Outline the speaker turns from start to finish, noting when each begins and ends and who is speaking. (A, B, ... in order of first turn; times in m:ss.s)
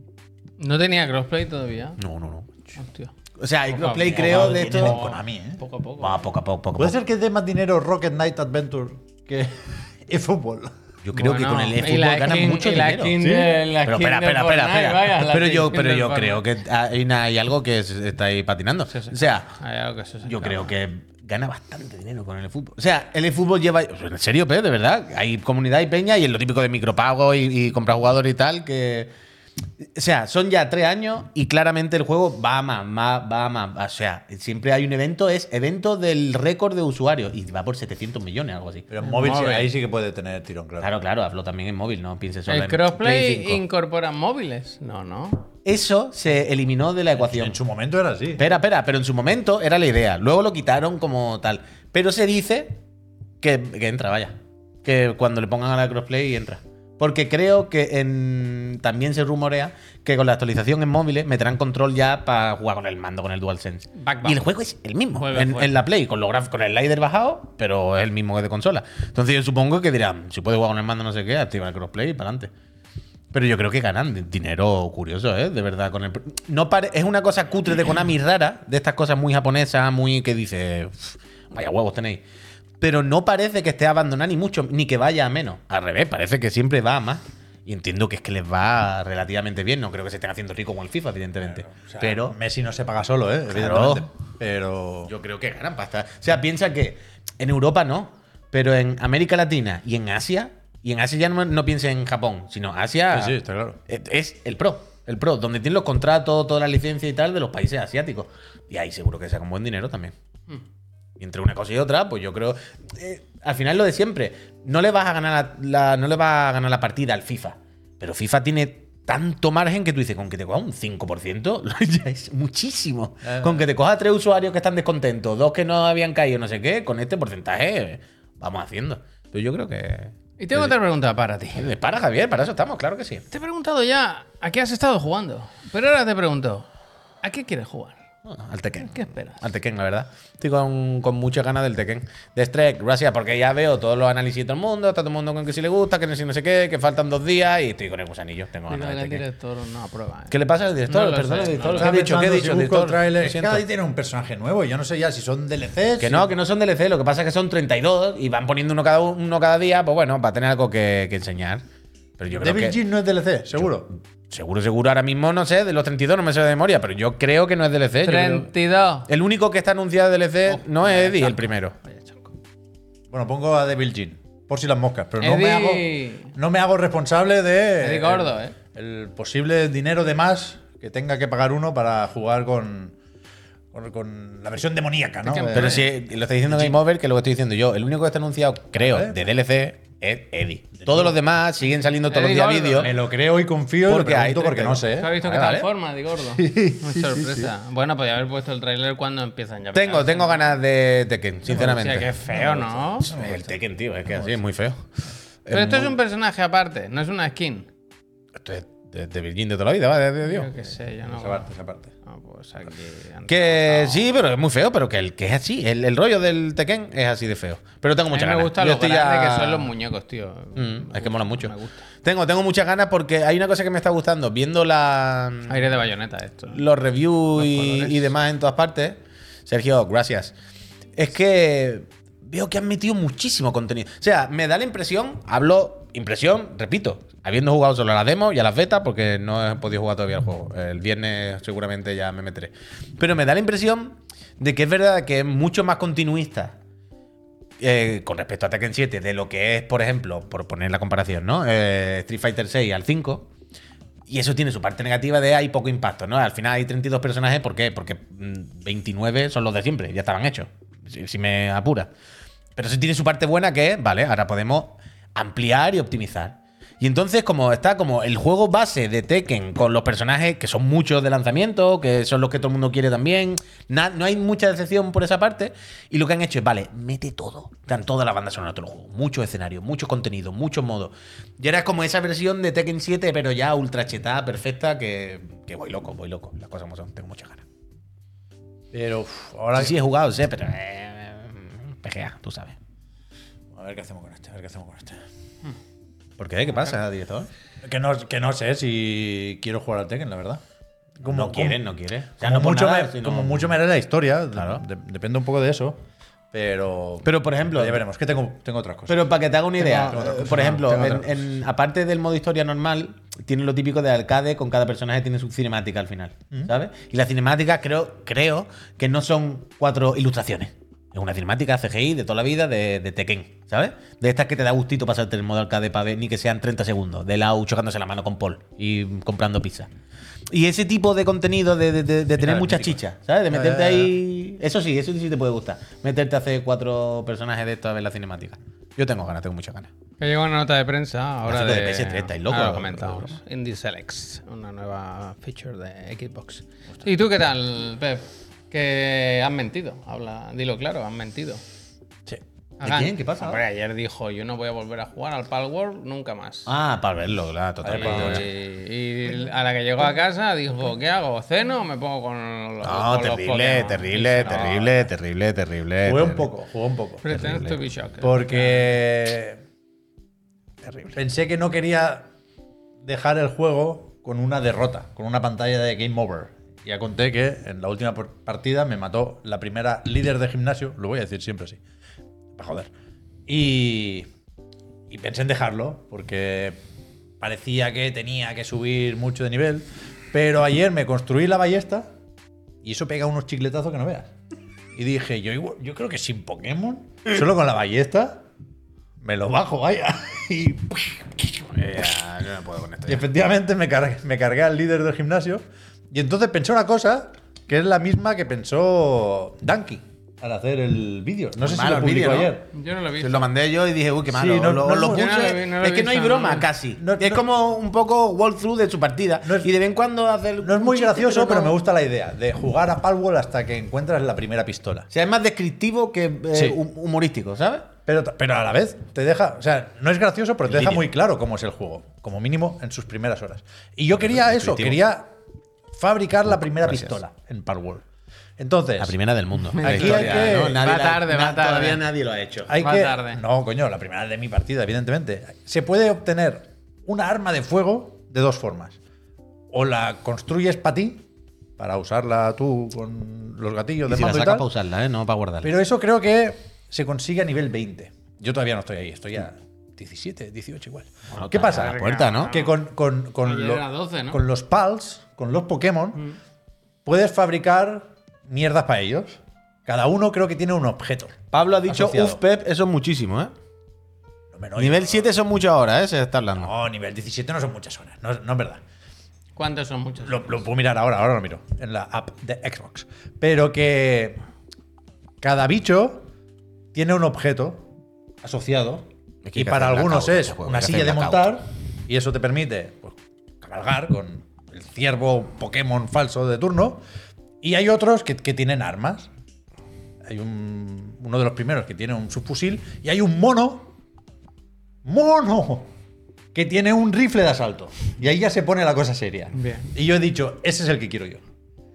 0:00.6-0:02.0 A
0:02.0-0:02.7 B
0:02.8-0:03.1 A
0:03.4-0:05.0 B
0:03.7-0:06.2 A
0:04.1-0:05.6 C
0:06.0-0:07.0 B
0:06.8-0:10.8 C
0:11.0-0:13.2 B
0:11.1-0:16.4 A
0:13.2-0:13.5 C
0:13.8-0:19.5 B
0:18.9-0:20.7 A
0:20.2-0:29.1 B
0:30.0-0:38.9 B
0:38.9-0:40.9 C
0:39.0-0:39.7 A
0:40.8-0:43.6 B
0:42.5-0:45.5 A
0:45.6-0:47.6 B
0:47.2-0:48.5 C
0:48.4-0:52.8 B
0:53.4-1:12.5 B
1:04.0-1:04.4 A
1:05.2-1:05.8 A
1:13.3-1:22.2 B
1:22.8-1:32.4 B
1:31.5-1:35.1 C
1:33.5-1:34.1 B
1:35.1-1:43.4 B
1:43.1-1:43.8 C
1:43.9-1:50.1 B
1:51.2-2:10.7 B
2:03.2-2:03.7 C
2:10.4-2:11.7 A
2:11.6-2:13.2 B
2:13.3-2:16.7 A
2:17.2-2:18.0 A
2:18.2-2:29.2 B
2:18.8-2:19.4 A
2:28.7-2:30.3 A
2:30.3-2:33.6 B
2:30.9-2:31.9 A
2:31.7-2:36.3 C
2:36.0-2:41.6 B
2:42.2-2:42.8 B
2:42.4-2:43.9 C
2:43.5-2:48.5 B
2:48.0-2:49.1 A
2:49.1-2:51.8 B
2:50.5-2:52.3 A
2:53.1-3:03.0 C
2:55.2-2:56.3 A
2:57.8-2:58.6 A
3:03.7-3:05.9 C
3:05.2-3:05.9 A
3:05.5-3:12.9 B
3:06.5-3:06.8 C
3:08.8-3:09.2 C
3:10.8-3:11.2 C
3:12.1-3:12.9 A
3:12.8-3:15.1 C
3:13.8-3:15.7 B
3:14.9-3:20.6 A
3:16.3-3:17.5 C
3:19.7-3:22.1 B
3:21.5-3:23.2 A
3:22.3-3:23.6 C
3:23.0-3:24.9 B
3:24.1-3:24.4 C
3:25.4-3:26.0 B
3:25.5-3:27.7 A
3:28.4-3:30.5 B
3:30.2-3:31.5 A
3:31.1-3:31.9 C
3:32.1-3:34.1 A
3:33.3-3:39.7 B
3:38.1-3:41.8 A
3:40.6-3:45.8 B
3:45.5-3:46.6 A
3:46.5-3:50.3 B
3:47.4-3:48.1 A
3:51.0-4:06.6 B
4:07.6-4:13.3 B
4:14.1-4:21.9 B
4:22.6-4:47.4 B
4:48.7-4:49.8 C
4:49.6-4:52.6 B
4:53.5-4:55.0 C
4:56.2-4:57.3 B
4:57.6-5:00.4 C
5:01.0-5:03.5 B
5:01.0-5:01.6 C
5:02.2-5:05.8 C
5:04.4-5:04.6 B
5:06.3-5:11.2 C
5:07.0-5:07.8 B
5:08.9-5:29.7 B
5:30.3-5:39.7 B
5:32.2-5:33.9 C
5:40.0-5:51.4 A
5:41.3-5:43.2 B
5:52.6-5:56.5 A
5:52.6-5:53.4 B
5:56.5-5:58.3 B
5:57.6-5:58.3 C
5:57.7-6:04.7 A
6:02.6-6:06.3 B
6:04.2-6:04.7 C
6:05.8-6:07.1 C
6:07.0-6:08.7 A
6:07.1-6:07.6 B
6:08.0-6:09.4 C
6:10.9-6:12.1 C
6:12.8-6:21.6 C
6:22.4-6:22.7 C
6:23.3-6:24.1 C
6:24.9-6:26.6 C
6:27.2-6:31.9 C
6:32.6-6:34.1 C
6:34.8-6:38.2 C
6:39.0-6:41.9 C
6:41.6-6:43.0 B
6:42.9-6:52.4 C
6:51.4-6:52.4 B
6:52.5-6:53.3 A
6:53.0-7:01.5 B
6:54.1-6:55.1 C
6:54.9-6:56.5 A
6:56.8-6:57.2 C
6:59.2-6:59.5 C
7:00.4-7:04.9 C
7:04.9-7:07.7 B
7:07.9-7:15.1 C
7:10.5-7:10.8 B
7:14.0-7:14.8 B
7:15.7-7:17.8 C
7:16.6-7:17.0 B
7:18.4-7:19.0 C
7:18.8-7:22.5 B
7:19.5-7:21.8 A
7:19.6-7:20.6 C
7:22.5-7:28.8 C
7:22.6-7:23.2 A
7:29.5-7:31.0 C
7:31.6-7:34.5 C
7:33.9-7:35.5 B
7:35.4-7:46.0 C
7:41.1-7:42.3 B
7:41.4-7:42.6 A
7:43.2-7:44.2 A
7:46.8-7:52.2 C
7:51.3-7:53.3 B
7:54.3-7:55.1 C
7:54.6-7:56.5 B
7:56.4-7:58.6 C
7:59.4-8:00.4 A
8:00.0-8:04.2 C
8:05.2-8:06.1 C
8:06.7-8:07.7 C
8:08.2-8:16.8 C
8:09.2-8:11.3 B
8:17.4-8:19.1 C
8:20.1-8:23.7 C
8:24.8-8:25.7 C
8:26.3-8:31.2 C
8:29.3-8:29.7 A